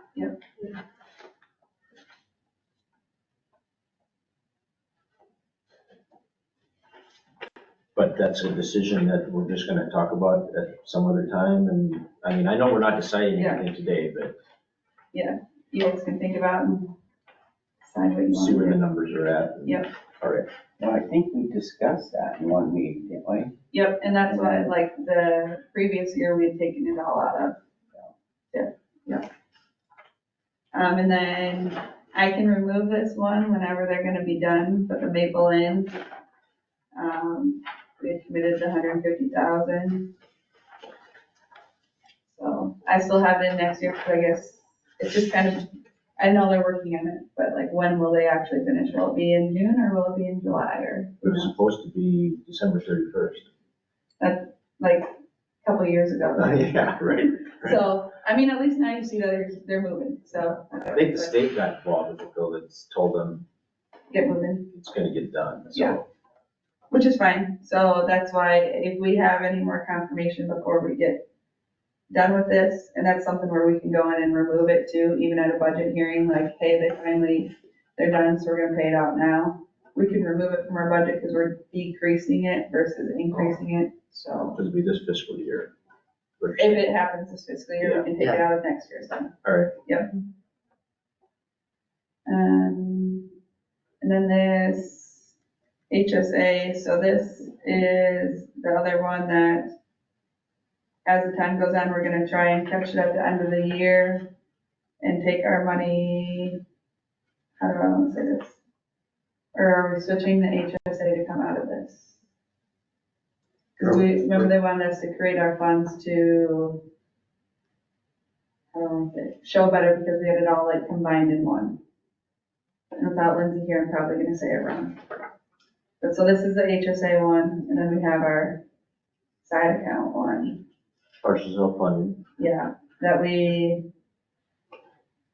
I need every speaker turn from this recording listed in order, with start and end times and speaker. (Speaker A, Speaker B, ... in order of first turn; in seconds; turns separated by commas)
Speaker A: 8.0-14.3, Speaker B: 13.4-13.7, Speaker B: 15.1-16.9, Speaker B: 17.8-18.8, Speaker A: 18.3-20.5, Speaker C: 20.8-23.5, Speaker B: 23.7-27.6, Speaker B: 28.5-29.3, Speaker B: 30.7-36.0, Speaker B: 36.9-40.1, Speaker B: 42.3-51.5, Speaker A: 51.2-53.5, Speaker B: 54.2-55.1, Speaker B: 55.6-57.1, Speaker A: 56.4-57.8, Speaker B: 57.6-61.4, Speaker A: 60.9-63.5, Speaker B: 64.1-64.7, Speaker A: 64.7-66.1, Speaker B: 65.7-66.0, Speaker B: 66.9-71.3, Speaker B: 72.1-84.6, Speaker A: 84.5-85.7, Speaker A: 86.4-86.9, Speaker B: 86.6-90.1, Speaker A: 87.8-88.1, Speaker A: 89.4-89.8, Speaker B: 92.3-93.3, Speaker B: 94.0-95.3, Speaker B: 95.9-99.7, Speaker B: 101.0-104.3, Speaker B: 105.0-106.6, Speaker B: 107.6-108.6, Speaker B: 109.5-112.2, Speaker B: 113.8-116.9, Speaker A: 113.8-114.5, Speaker B: 118.7-121.8, Speaker B: 123.0-125.0, Speaker B: 126.0-128.6, Speaker B: 129.4-130.6, Speaker A: 131.2-132.2, Speaker B: 132.4-133.9